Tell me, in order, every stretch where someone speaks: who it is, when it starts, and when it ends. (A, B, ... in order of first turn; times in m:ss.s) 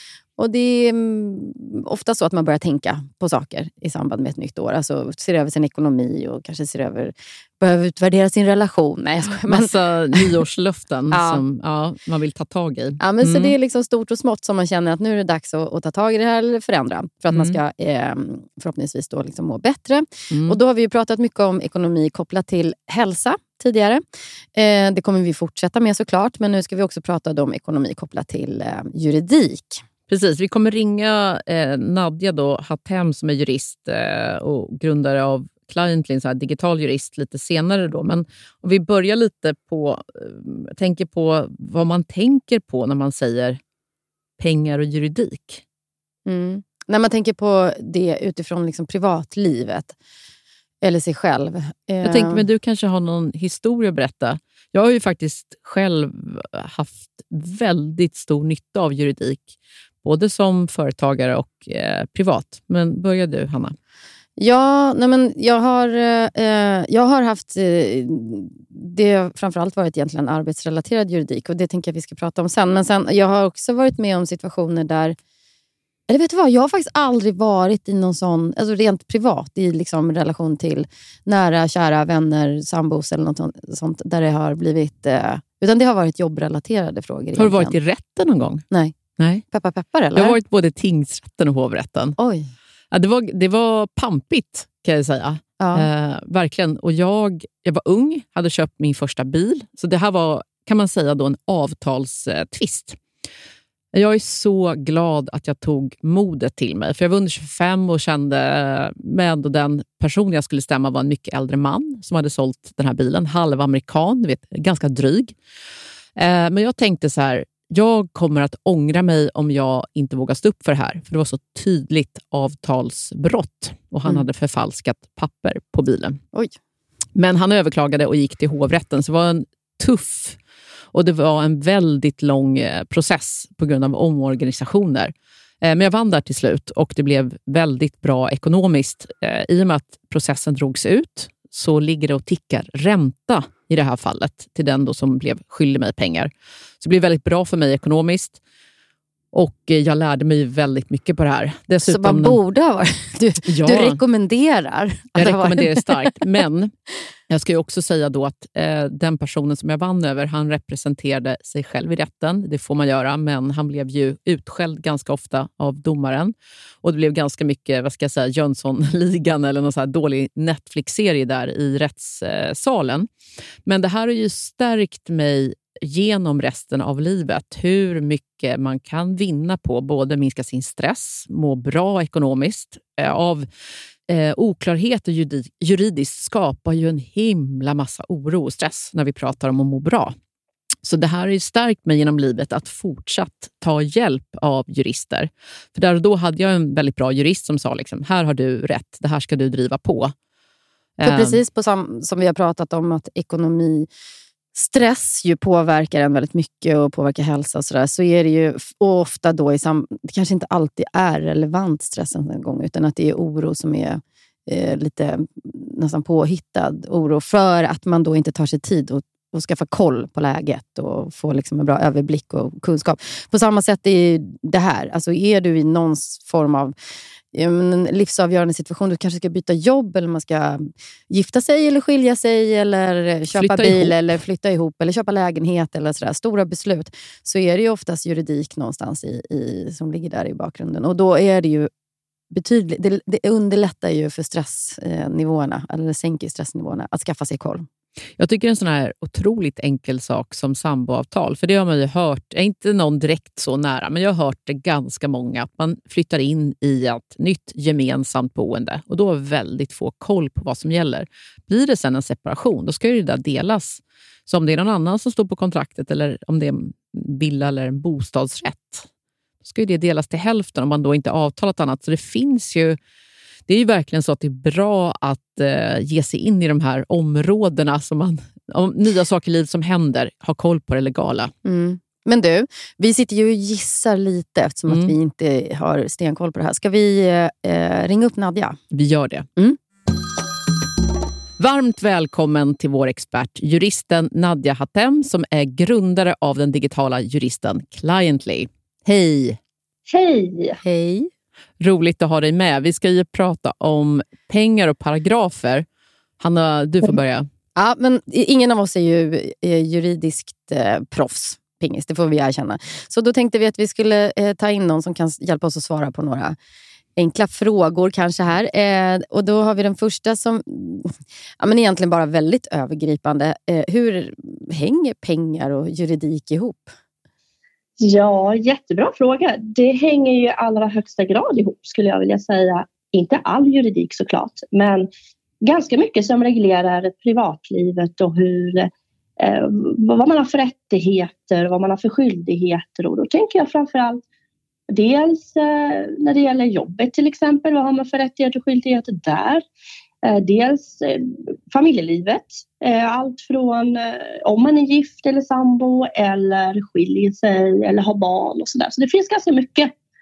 0:00.4-0:10.4 A
0:09.3-0:13.5 B
0:11.1-0:11.4 A
0:13.0-0:24.0 A
0:17.3-0:17.6 B
0:20.3-0:20.6 B
0:24.5-0:29.8 A
0:30.1-0:43.6 B
0:44.4-0:45.6 B
0:46.2-0:50.0 A
0:50.8-0:52.4 A
0:52.0-1:03.7 B
1:04.4-1:15.2 A
1:16.1-1:27.8 A
1:27.4-1:28.6 B
1:28.7-1:29.0 A
1:29.2-1:29.4 B
1:29.5-1:30.4 A
1:30.1-1:32.2 B
1:32.2-1:32.5 A
1:32.9-1:43.0 B
1:35.6-1:35.9 A
1:43.9-1:55.4 B
1:56.2-2:06.2 B
2:07.1-2:10.4 B
2:10.9-2:28.4 B
2:29.3-2:32.4 B
2:31.8-2:36.2 A
2:33.4-2:34.0 B
2:35.2-2:36.7 B
2:37.3-2:53.1 B
2:53.6-3:03.4 B
3:04.1-3:10.1 B
3:10.8-3:20.1 B
3:21.0-3:21.4 B
3:21.0-3:23.9 A
3:24.5-3:46.7 A
3:47.3-4:01.7 A
3:53.3-3:54.0 B
4:02.3-4:07.6 A
4:08.2-4:28.9 B
4:29.4-4:32.8 B
4:33.5-4:41.3 B
4:41.4-4:48.6 A
4:44.7-4:44.9 B
4:48.7-4:49.3 B
4:51.4-4:59.4 B
4:59.9-5:00.6 C
5:00.6-5:01.1 A
5:01.6-5:05.6 B
5:06.2-5:07.2 B
5:07.6-5:16.4 A
5:17.0-5:26.7 A
5:27.8-5:34.9 C
5:35.4-5:38.7 C
5:39.2-5:44.0 C
5:44.7-5:49.4 C
5:50.0-5:59.7 C